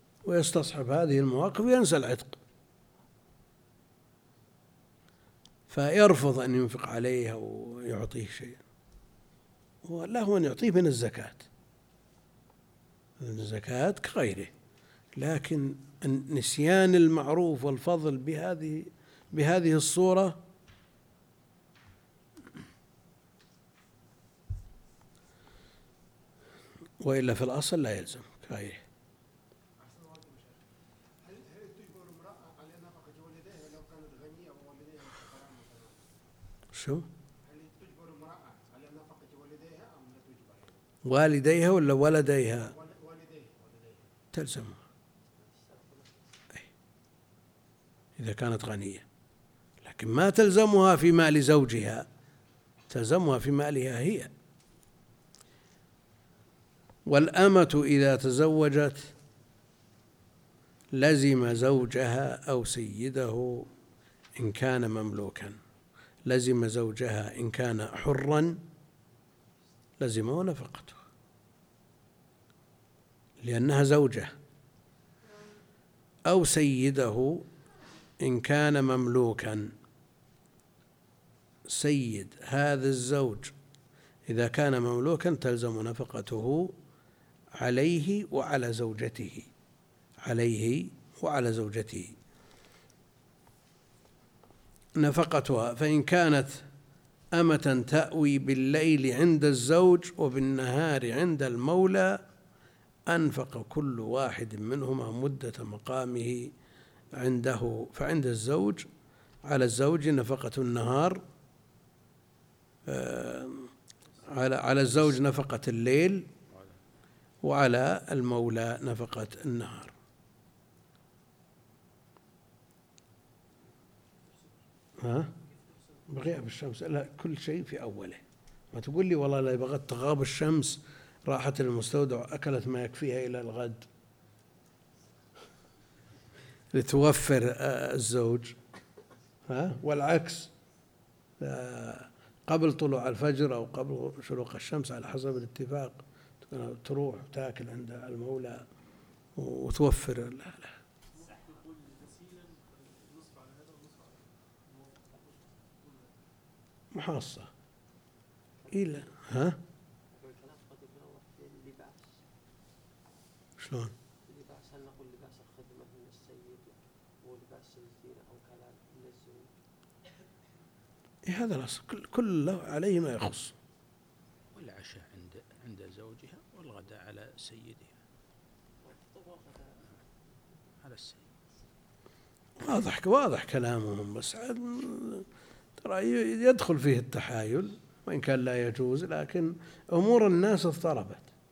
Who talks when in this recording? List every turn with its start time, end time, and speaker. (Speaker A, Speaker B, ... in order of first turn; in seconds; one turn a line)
Speaker A: 0.2-2.4
Speaker A: 5.7-8.6
Speaker A: 9.8-11.4
Speaker A: 13.2-14.5
Speaker A: 15.2-20.4
Speaker A: 27.0-28.8
Speaker B: 29.8-30.7
Speaker B: 31.2-36.2
Speaker A: 36.7-37.1
Speaker B: 37.4-40.9
Speaker A: 41.0-42.7
Speaker B: 42.5-44.1
Speaker A: 44.3-44.8
Speaker C: 45.3-46.4
Speaker A: 48.2-49.0
Speaker A: 49.8-52.1
Speaker A: 52.9-54.3
Speaker A: 57.1-59.1
Speaker A: 60.9-63.7
Speaker A: 64.3-65.6
Speaker A: 66.2-68.6
Speaker A: 70.0-71.0
Speaker A: 73.4-74.3
Speaker A: 76.3-77.5
Speaker A: 78.2-79.7
Speaker A: 81.7-83.5
Speaker A: 84.3-86.7
Speaker A: 87.6-89.5
Speaker A: 90.2-92.2
Speaker A: 95.0-96.6
Speaker A: 97.3-102.2
Speaker A: 103.1-106.5
Speaker A: 107.1-108.9
Speaker A: 109.4-111.2
Speaker A: 112.9-113.7
Speaker D: 114.0-114.5
Speaker A: 114.3-116.3
Speaker E: 116.5-116.8
Speaker A: 117.4-119.9
Speaker D: 124.2-126.5
Speaker A: 125.0-125.3
Speaker A: 126.1-128.2
Speaker A: 128.7-133.9
Speaker A: 136.7-138.6
Speaker A: 139.5-140.5
Speaker A: 141.4-148.7
Speaker A: 149.3-150.8
Speaker D: 151.1-156.2
Speaker A: 156.9-157.5
Speaker C: 158.6-159.1
Speaker A: 158.7-159.6
Speaker C: 160.1-162.2
Speaker A: 163.6-163.9
Speaker C: 164.2-169.5
Speaker A: 171.3-173.5
Speaker E: 174.5-177.9
Speaker C: 178.8-179.8
Speaker E: 180.8-181.3
Speaker A: 182.6-185.2
Speaker A: 185.8-191.3